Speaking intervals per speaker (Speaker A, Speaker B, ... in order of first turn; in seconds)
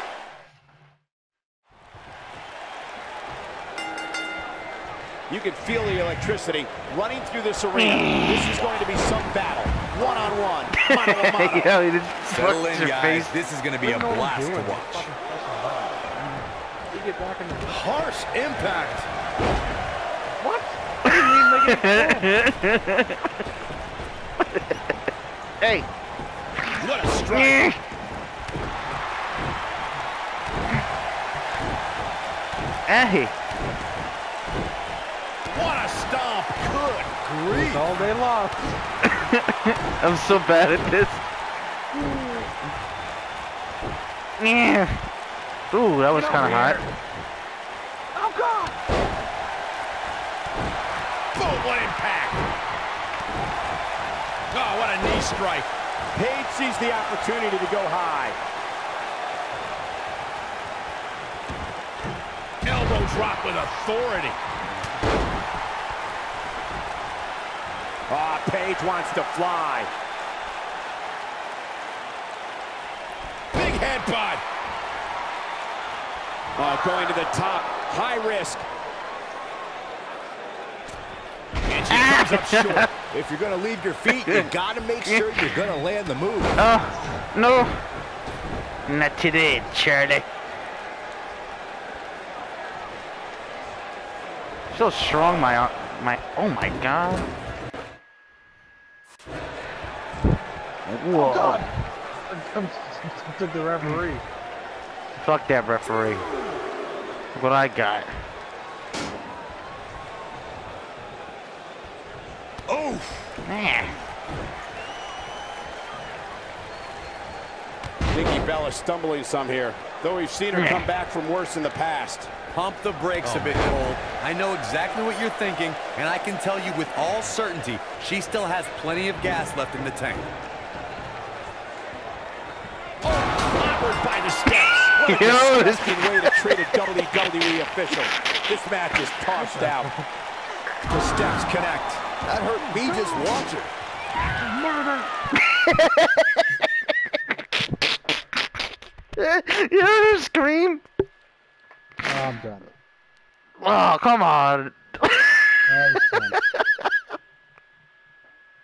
Speaker A: 5.3-11.7, 26.8-27.6, 35.4-37.8, 51.3-52.4, 54.5-58.4, 62.6-64.4, 68.1-69.9, 73.5-74.4, 76.5-78.7, 81.7-82.9, 118.1-122.3, 133.0-139.9, 140.9-142.1
Speaker B: 7.7-8.6, 10.8-13.3, 21.1-23.2, 25.6-25.9, 27.3-27.8, 32.9-33.3, 39.0-41.2, 44.4-45.0, 45.7-46.8, 81.9-82.9, 84.1-84.5, 85.0-85.5, 86.5-87.8, 88.8-90.3, 94.7-97.3, 100.8-101.6, 105.2-106.3, 107.3-108.1, 113.4-114.0, 120.5-120.8, 135.0-136.6, 145.4-146.5, 149.2-150.8, 153.6-156.6
Speaker C: 10.0-10.4, 13.8-16.1, 16.9-17.9, 20.4-22.4, 37.4-38.8, 41.9-42.5, 46.1-46.9, 48.1-48.8, 101.1-101.7, 102.3-104.2, 139.3-139.9, 142.7-143.2, 144.4-145.1, 152.0-152.7, 155.7-156.4
Speaker D: 12.3-15.1, 122.5-130.3
Speaker E: 17.7-19.1, 37.2-37.5, 83.1-86.5, 123.2-123.8, 142.2-143.7